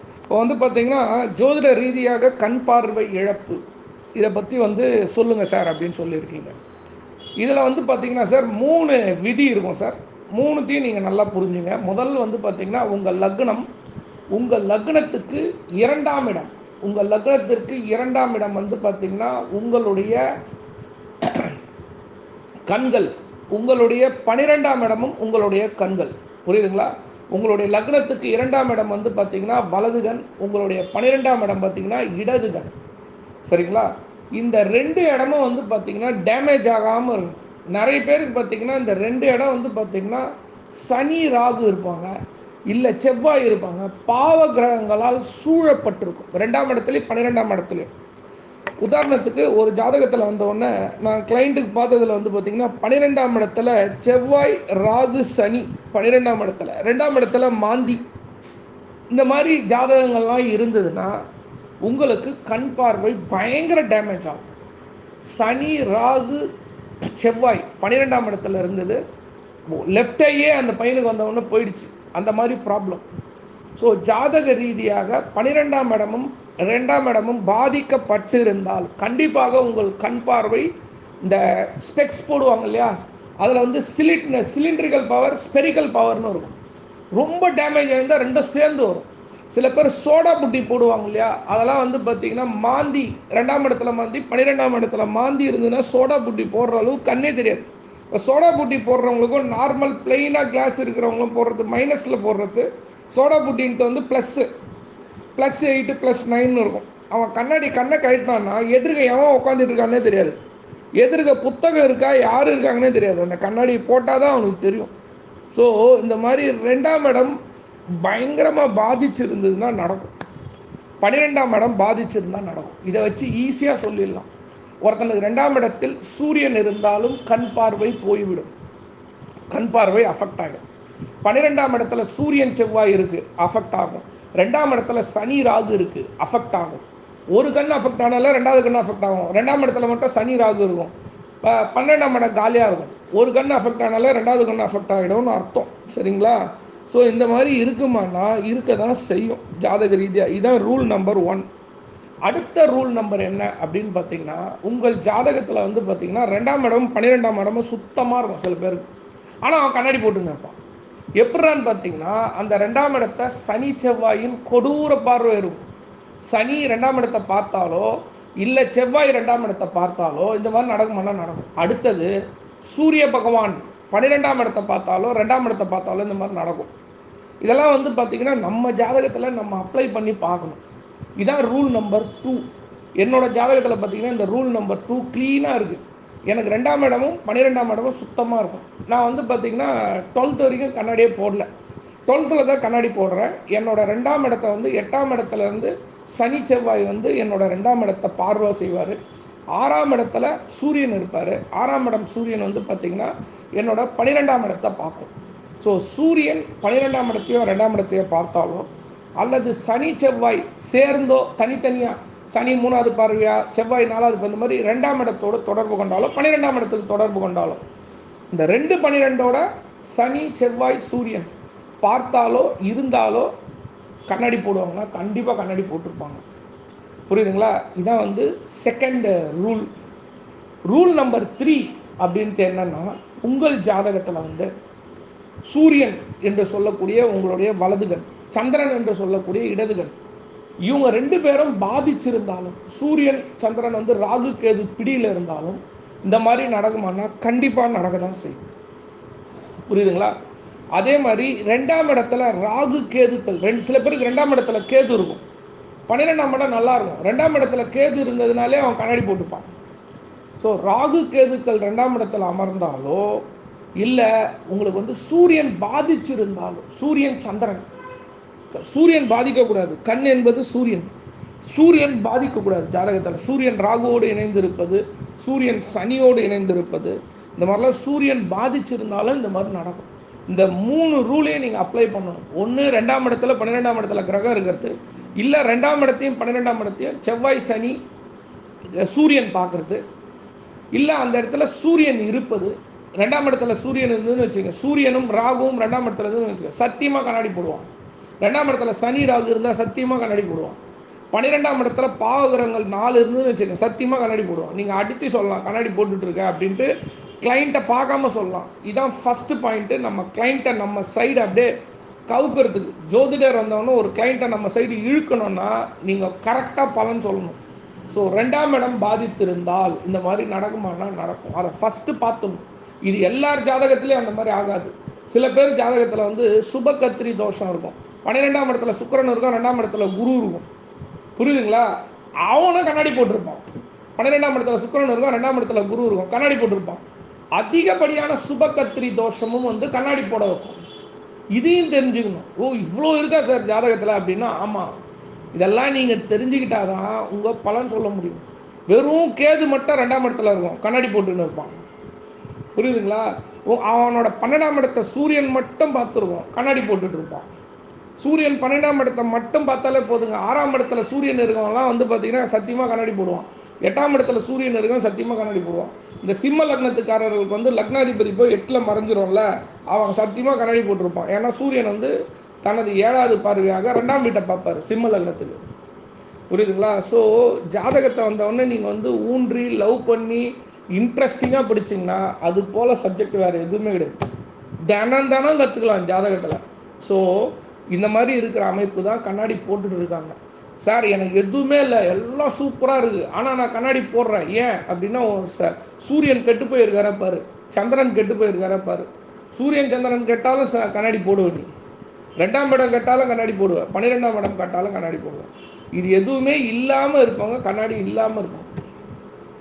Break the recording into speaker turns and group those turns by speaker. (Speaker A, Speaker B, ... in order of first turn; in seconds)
Speaker A: 0.3-3.6, 4.2-6.6, 7.4-13.7, 14.3-20.2, 21.2-21.6, 22.7-32.7, 33.5-40.2, 40.8-42.1, 42.7-47.9, 48.8-58.0, 59.1-61.2, 61.8-64.4, 65.3-66.5, 67.0-69.0, 69.7-73.0, 73.8-80.7, 81.2-86.6, 87.2-104.5, 105.4-110.4, 111.0-114.9, 115.5-117.3, 117.9-120.1, 121.0-124.3, 124.8-128.5, 129.5-130.6, 131.2-151.4, 152.3-158.9, 159.4-160.6, 161.2-165.6, 166.3-172.1, 172.7-176.7, 177.4-180.6, 181.2-182.5, 183.0-191.5, 192.1-199.0, 199.6-217.6, 218.3-221.3, 221.8-223.3, 224.1-226.2, 227.1-229.7, 230.7-234.5, 235.5-239.9, 240.7-248.4, 249.7-250.1, 250.8-255.2, 255.9-259.5, 260.4-263.2, 263.8-267.7, 268.5-270.9, 271.5-287.8, 288.8-289.8, 290.7-297.7, 298.2-300.6, 301.1-306.7, 307.2-311.5, 312.1-317.4, 317.9-330.5, 331.2-331.7, 332.2-333.4, 334.0-336.8, 337.4-340.6, 341.4-344.7, 345.3-351.6, 352.6-357.3, 358.0-371.9, 372.4-375.4, 376.3-384.0, 384.7-401.5, 402.2-408.5